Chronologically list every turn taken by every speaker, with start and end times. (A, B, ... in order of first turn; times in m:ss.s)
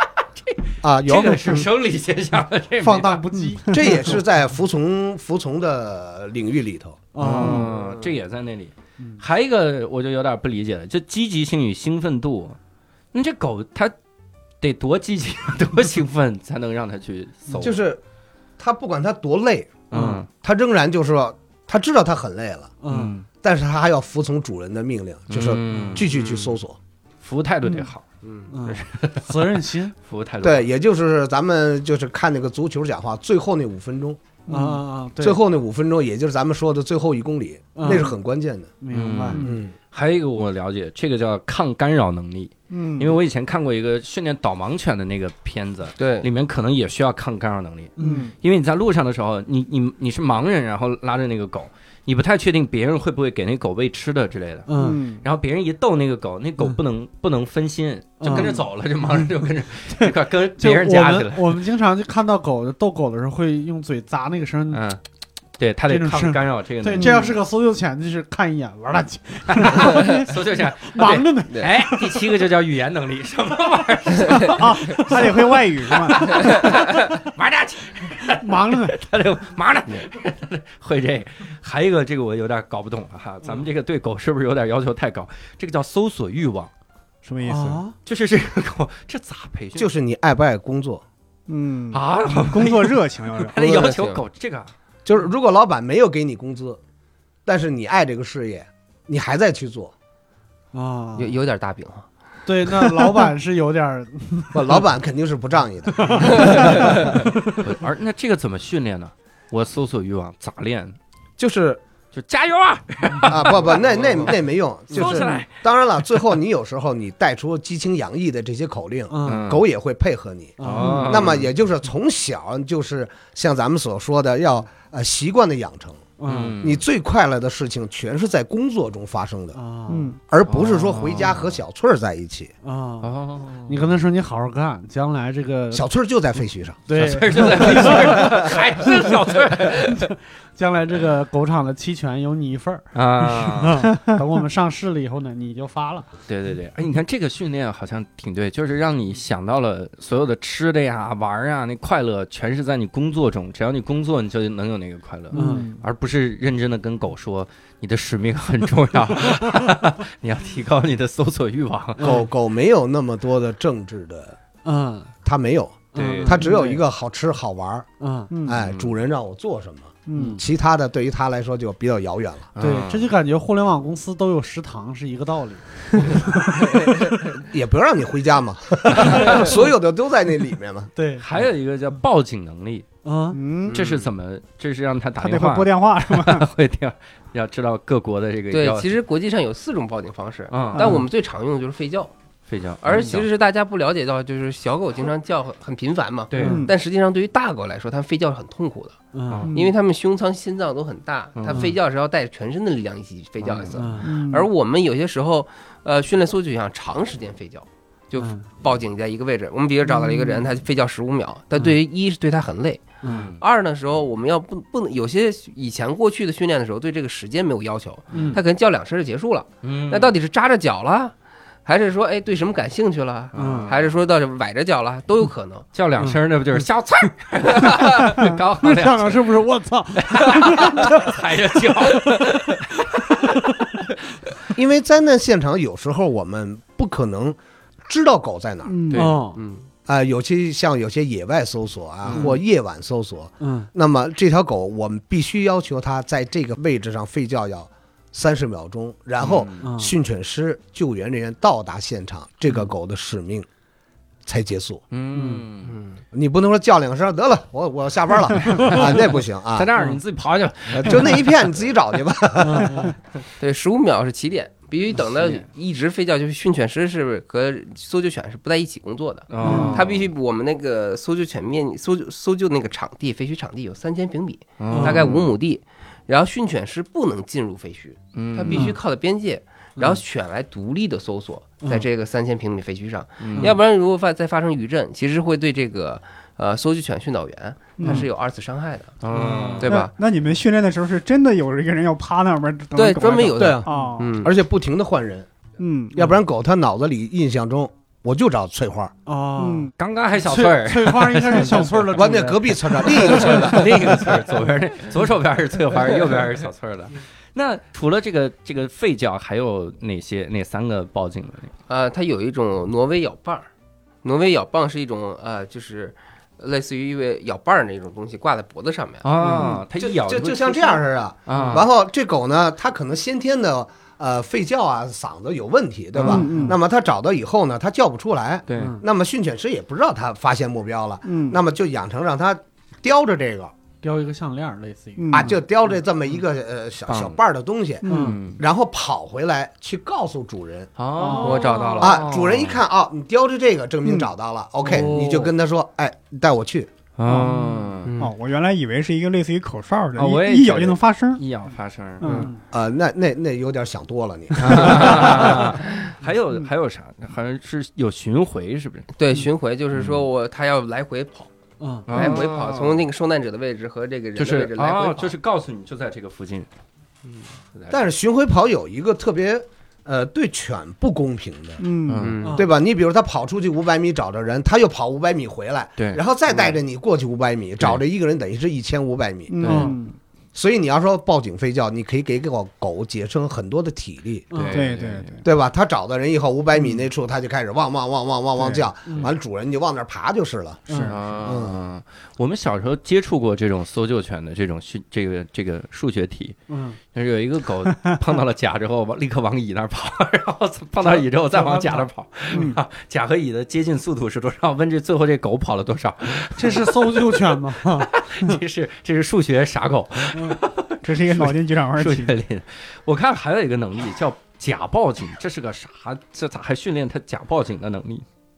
0:00.4-0:03.2 A
0:00.8-0:01.7 B
0:02.8-0:04.2 C
0:03.4-0:04.0 D
0:03.7-0:07.0 B
0:07.1-0:07.7 C
0:07.2-0:12.6 A
0:07.5-0:08.1 E
0:13.1-0:13.9 A
0:14.6-0:17.8 A
0:17.6-0:18.0 B
0:18.6-0:19.8 B
0:19.9-0:20.3 A
0:19.9-0:20.2 C
0:20.4-0:22.7 B
0:22.8-0:23.1 C
0:22.9-0:23.2 A
0:23.4-0:26.8 B
0:25.3-0:26.1 A
0:25.7-0:26.0 C
0:26.1-0:26.6 E
0:27.2-0:28.0 A
0:28.2-0:28.5 E
0:28.5-0:29.9 C
0:28.6-0:30.7 A
0:30.4-0:34.2 B
0:34.5-0:34.8 D
0:34.5-0:35.4 C
0:35.2-0:38.7 B
0:37.8-0:38.1 C
0:38.8-0:39.4 C
0:38.9-1:01.6 A
0:39.4-0:39.7 B
0:42.7-0:43.2 D
0:46.0-0:46.3 E
0:48.0-0:48.3 C
0:48.0-0:48.3 D
0:54.7-0:55.0 C
0:54.7-0:55.2 D
0:58.2-0:58.6 C
1:00.0-1:04.8 C
1:04.7-1:05.0 A
1:05.6-1:07.3 A
1:05.9-1:12.2 C
1:06.9-1:07.3 D
1:09.5-1:26.7 A
1:14.4-1:16.6 D
1:15.1-1:15.5 C
1:18.4-1:18.9 C
1:27.2-1:27.8 D
1:27.4-1:28.0 C
1:28.0-1:29.9 A
1:29.7-1:31.0 B
1:31.5-1:33.6 D
1:31.9-1:34.7 A
1:33.5-1:34.2 E
1:35.0-1:36.8 B
1:37.4-1:39.9 B
1:40.7-1:41.4 C
1:41.2-1:42.1 E
1:42.4-1:44.8 C
1:44.5-1:46.8 B
1:46.0-1:47.2 C
1:46.3-1:47.0 E
1:47.0-1:51.0 A
1:51.4-1:51.8 B
1:52.1-1:56.2 A
1:53.2-2:06.0 B
1:55.0-1:55.3 C
1:59.1-1:59.5 C
1:59.2-1:59.6 A
2:00.6-2:01.3 C
2:00.6-2:01.5 A
2:06.2-2:06.6 C
2:06.2-2:06.8 A
2:06.6-2:09.6 B
2:09.5-2:10.1 C
2:09.9-2:10.2 D
2:10.3-2:12.5 B
2:10.5-2:11.6 A
2:12.6-2:13.1 C
2:13.0-2:13.9 A
2:13.6-2:15.9 C
2:15.7-2:16.9 B
2:16.9-2:18.4 C
2:16.9-2:20.1 A
2:19.9-2:26.1 C
2:22.9-2:23.9 A
2:26.3-2:42.2 A
2:35.3-2:35.7 C
2:35.3-2:35.8 D
2:42.0-2:42.2 C
2:42.0-2:44.4 B
2:44.6-2:45.1 C
2:45.2-2:47.9 B
2:45.9-2:46.8 C
2:45.9-2:46.4 A
2:48.0-2:48.3 C
2:48.3-2:48.6 D
2:48.4-2:52.5 B
2:48.6-2:48.9 A
2:50.0-2:50.4 D
2:50.1-2:50.4 C
2:52.5-2:53.1 A
2:52.6-2:56.9 C
2:57.3-3:00.9 B
3:01.0-3:01.2 C
3:01.2-3:02.8 A
3:03.0-3:03.4 C
3:03.3-3:03.8 D
3:03.6-3:04.1 E
3:03.7-3:09.0 A
3:05.2-3:06.5 D
3:08.5-3:12.1 E
3:10.5-3:11.0 A
3:12.5-3:13.3 A
3:12.8-3:19.0 E
3:16.3-3:16.6 A
3:16.4-3:16.6 C
3:16.4-3:16.7 D
3:19.1-3:19.5 C
3:19.3-3:19.6 A
3:19.4-3:19.7 D
3:19.5-3:32.8 E
3:21.4-3:21.7 A
3:23.4-3:23.9 A
3:23.7-3:24.1 C
3:24.0-3:24.5 D
3:28.2-3:28.4 C
3:33.0-3:33.3 C
3:33.0-3:33.4 A
3:33.4-3:41.1 E
3:38.1-3:38.4 C
3:39.6-3:40.1 A
3:41.6-3:45.7 E
3:43.3-3:43.9 A
3:43.4-3:43.7 C
3:45.7-3:49.4 A
3:47.4-3:48.0 E
3:48.2-3:52.2 C
3:50.0-3:53.4 A
3:53.2-3:53.5 C
3:54.5-3:58.9 B
3:58.6-3:59.1 D
3:58.9-3:59.2 A
3:58.9-3:59.4 C
3:59.3-3:59.7 E
3:59.8-4:13.5 B
4:02.1-4:02.4 C
4:03.4-4:03.7 C
4:09.2-4:09.6 A
4:09.6-4:09.9 C
4:14.2-4:14.8 B
4:14.9-4:15.8 A
4:15.1-4:15.4 C
4:15.6-4:16.0 E
4:16.1-4:19.7 B
4:18.5-4:21.7 A
4:20.7-4:22.9 B
4:22.4-4:22.9 C
4:23.4-4:49.0 E
4:25.0-4:25.4 A
4:29.3-4:30.1 A
4:29.4-4:29.8 C
4:29.4-4:29.8 D
4:34.6-4:35.3 A
4:34.7-4:35.2 C
4:38.1-4:38.8 A
4:38.5-4:38.8 C
4:43.2-4:43.6 A
4:47.8-4:48.0 D
4:49.0-4:49.7 A
4:49.1-4:49.6 C
4:49.6-4:49.9 E
4:49.6-4:54.1 D
4:52.7-4:54.3 E
4:53.3-4:55.3 B
4:53.7-4:54.0 C
4:55.6-4:56.0 D
4:55.9-4:58.9 B
4:59.0-5:03.6 C
4:59.4-4:59.7 D
4:59.8-5:02.0 A
5:01.9-5:03.8 B
5:02.8-5:11.5 A
5:11.7-5:13.5 E
5:14.0-5:19.1 E
5:19.0-5:21.6 A
5:19.8-5:33.5 B
5:26.0-5:26.6 C
5:26.0-5:26.6 D
5:28.5-5:28.8 A
5:28.6-5:28.8 C
5:31.0-5:31.4 D
5:33.8-5:35.3 C
5:35.0-5:35.3 D
5:35.1-5:37.8 B
5:36.9-5:37.2 A
5:37.8-5:38.2 D
5:37.8-5:38.2 C
5:37.9-5:38.4 A
5:38.4-5:40.7 B
5:40.8-5:42.6 A
5:41.0-5:41.4 C
5:41.1-5:42.0 E
5:41.8-5:46.7 B
5:44.6-5:45.1 C
5:44.6-5:45.3 A
5:47.0-5:47.9 A
5:47.1-5:51.2 D
5:47.8-5:48.1 E
5:50.0-5:52.3 A
5:52.0-5:52.3 D
5:52.0-5:52.4 C
5:52.5-5:55.5 B
5:54.4-5:58.9 A
5:58.9-6:01.3 E
5:59.7-6:00.0 A
6:01.6-6:01.9 C
6:01.9-6:02.9 A
6:01.9-6:05.1 E
6:04.2-6:06.5 A
6:07.7-6:11.6 B
6:11.6-6:12.1 D
6:11.9-6:12.2 A
6:12.0-6:12.5 E
6:12.2-6:12.5 C
6:12.3-6:19.4 B
6:16.3-6:16.5 E
6:19.3-6:19.9 D
6:19.4-6:19.7 A
6:19.4-6:19.8 C
6:20.3-6:24.3 B
6:24.3-6:24.6 C
6:24.3-6:25.2 A
6:24.5-6:25.2 D
6:25.2-6:31.6 B
6:28.4-6:29.1 C
6:30.7-6:31.0 C
6:30.9-6:36.4 A
6:36.5-6:36.8 C
6:36.9-6:58.0 A
6:40.8-6:42.5 C
6:42.3-6:42.6 D
6:46.3-6:47.9 C
6:50.1-6:50.4 C
6:50.8-6:52.2 D